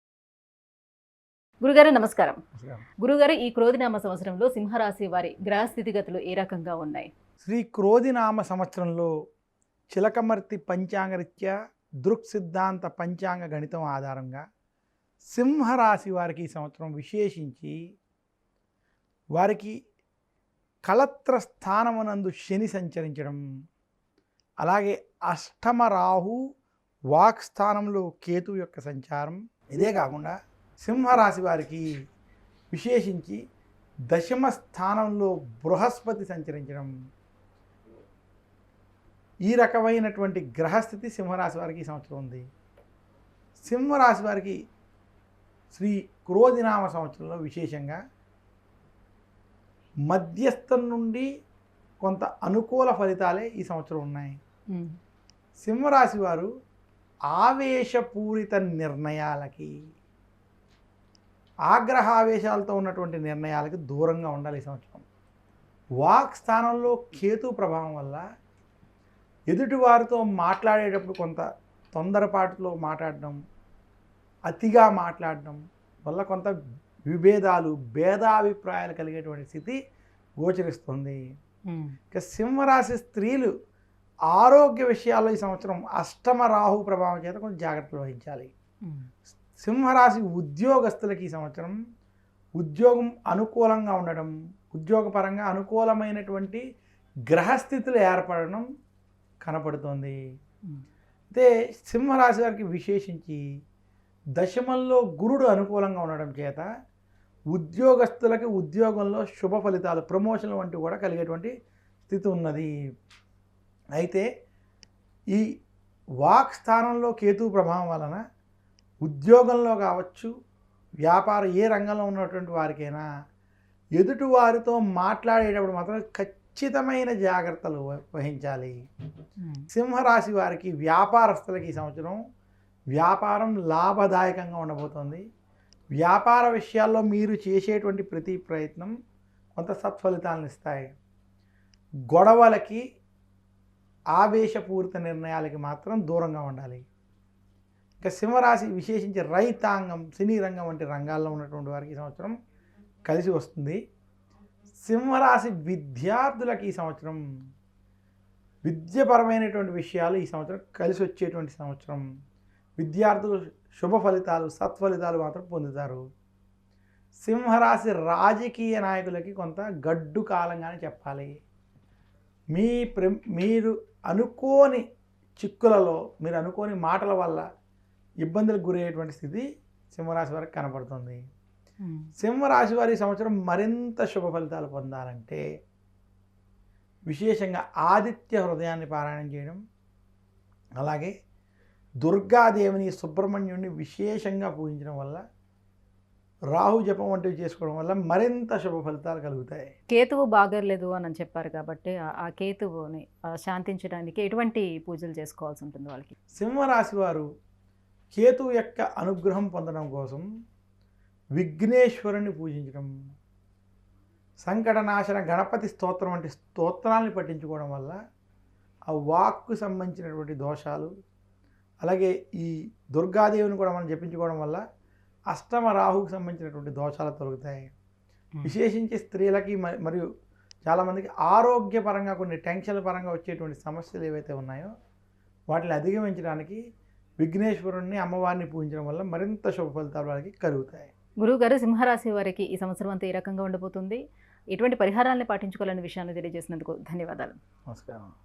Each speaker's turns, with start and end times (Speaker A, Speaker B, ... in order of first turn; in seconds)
Speaker A: 1.6-2.4, 3.0-7.1, 54.7-55.0, 81.7-82.0, 129.4-129.7, 181.8-182.1, 199.9-206.1, 241.2-244.0, 244.5-247.3
Speaker B: 7.4-9.1, 9.9-14.4, 15.3-17.7, 19.3-19.7, 20.9-23.4, 24.6-26.4, 27.1-31.8, 32.7-33.4, 34.1-36.9, 39.4-42.4, 43.6-44.5, 45.7-48.0, 50.1-51.3, 52.0-54.4, 55.6-56.5, 57.3-59.7, 61.7-65.0, 66.0-68.2, 69.5-71.4, 71.9-73.4, 74.5-76.5, 77.1-79.8, 80.4-81.2, 82.1-83.5, 84.3-88.5, 89.6-91.7, 92.6-96.6, 97.3-98.7, 99.4-100.1, 101.3-103.4, 104.3-106.7, 107.5-111.5, 112.1-112.7, 114.0-114.2, 116.2-118.2, 119.0-120.3, 121.0-123.1, 124.0-128.8, 129.7-132.2, 132.9-135.2, 136.0-138.9, 139.6-140.9, 142.1-142.8, 144.1-146.8, 148.0-152.3, 153.1-153.8, 154.8-157.2, 158.6-162.0, 162.8-166.0, 167.2-171.3, 172.5-174.8, 175.4-177.4, 178.2-181.2, 182.2-185.4, 187.1-189.6, 190.8-191.1, 192.0-195.2, 196.5-199.7, 206.3-207.2, 208.1-210.2, 211.3-212.9, 214.4-217.9, 218.9-220.9, 221.8-224.6, 225.3-227.7, 228.4-230.0, 230.6-234.7, 235.5-236.6, 237.2-240.9, 247.7-248.1